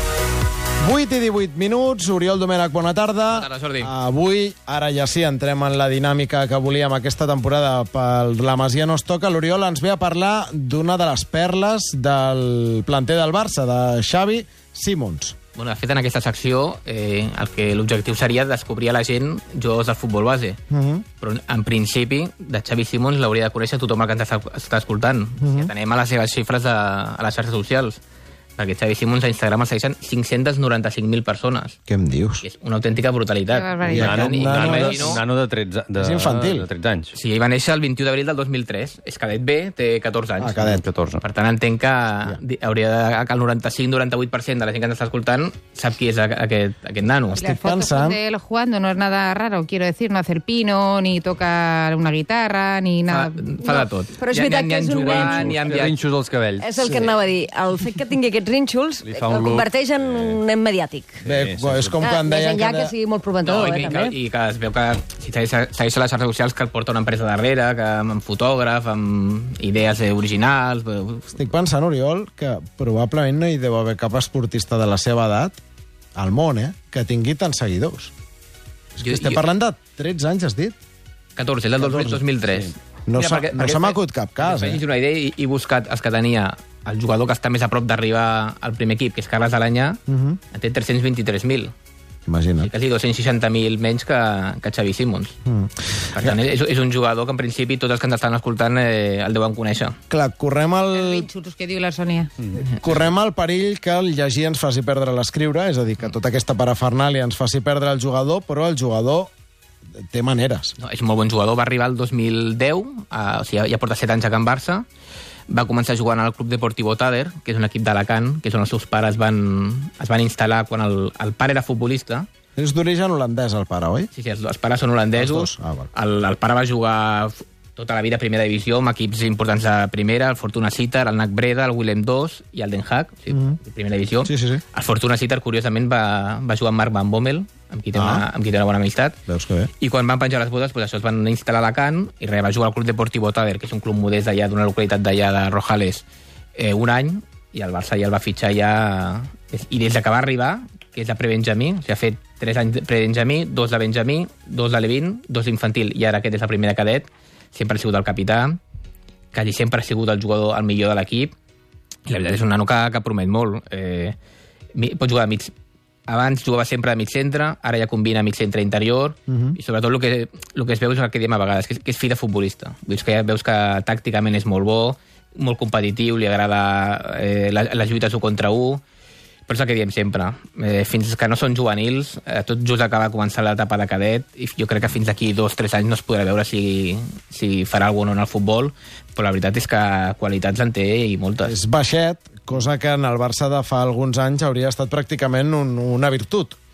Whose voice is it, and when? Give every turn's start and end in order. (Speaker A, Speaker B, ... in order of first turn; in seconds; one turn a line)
Speaker A: 0.8-15.3
Speaker B: 3.3-3.9
Speaker B: 15.6-20.6
Speaker A: 20.7-21.0
Speaker B: 21.2-28.0
Speaker A: 25.4-25.7
Speaker B: 28.6-31.8
Speaker A: 31.9-32.4
Speaker B: 32.4-35.2
Speaker C: 33.5-34.0
Speaker A: 33.9-35.2
Speaker D: 33.9-37.1
Speaker A: 36.0-36.7
Speaker B: 37.1-40.6
Speaker A: 40.4-40.8
Speaker D: 40.6-41.2
Speaker B: 41.2-47.4
Speaker A: 47.3-48.2
Speaker C: 47.4-53.6
Speaker B: 53.1-55.9
Speaker E: 53.6-55.5
Speaker D: 55.0-56.7
Speaker E: 56.6-61.2
Speaker A: 56.8-57.1
Speaker D: 59.0-60.4
Speaker D: 61.2-62.1
Speaker A: 61.2-62.9
Speaker E: 62.0-64.1
Speaker B: 63.4-71.4
Speaker A: 71.3-75.6
Speaker A: 76.2-78.1
Speaker A: 79.0-80.8
Speaker B: 79.0-79.4
Speaker B: 81.3-90.0
Speaker A: 81.8-82.2
Speaker A: 83.1-84.8
Speaker A: 90.1-90.4
Speaker B: 90.5-91.7
Speaker A: 92.3-92.7
Speaker B: 92.6-95.3
Speaker A: 95.5-96.4
Speaker B: 96.1-100.0
Speaker A: 100.1-101.3
Speaker C: 100.9-102.3
Speaker A: 102.6-109.3
Speaker B: 102.6-103.0
Speaker A: 110.1-110.8
Speaker B: 110.8-114.9
Speaker B: 115.5-122.3
Speaker A: 122.6-124.1
Speaker B: 124.1-139.2
Speaker A: 125.1-125.9
Speaker A: 134.2-134.6
Speaker A: 137.9-138.3
Speaker A: 139.3-139.7
Speaker B: 139.8-158.6
Speaker B: 159.3-161.3
Speaker B: 162.1-164.2
Speaker B: 164.7-165.5
Speaker B: 166.1-178.8
Speaker A: 169.3-169.6
Speaker B: 179.5-191.6
Speaker A: 191.4-196.6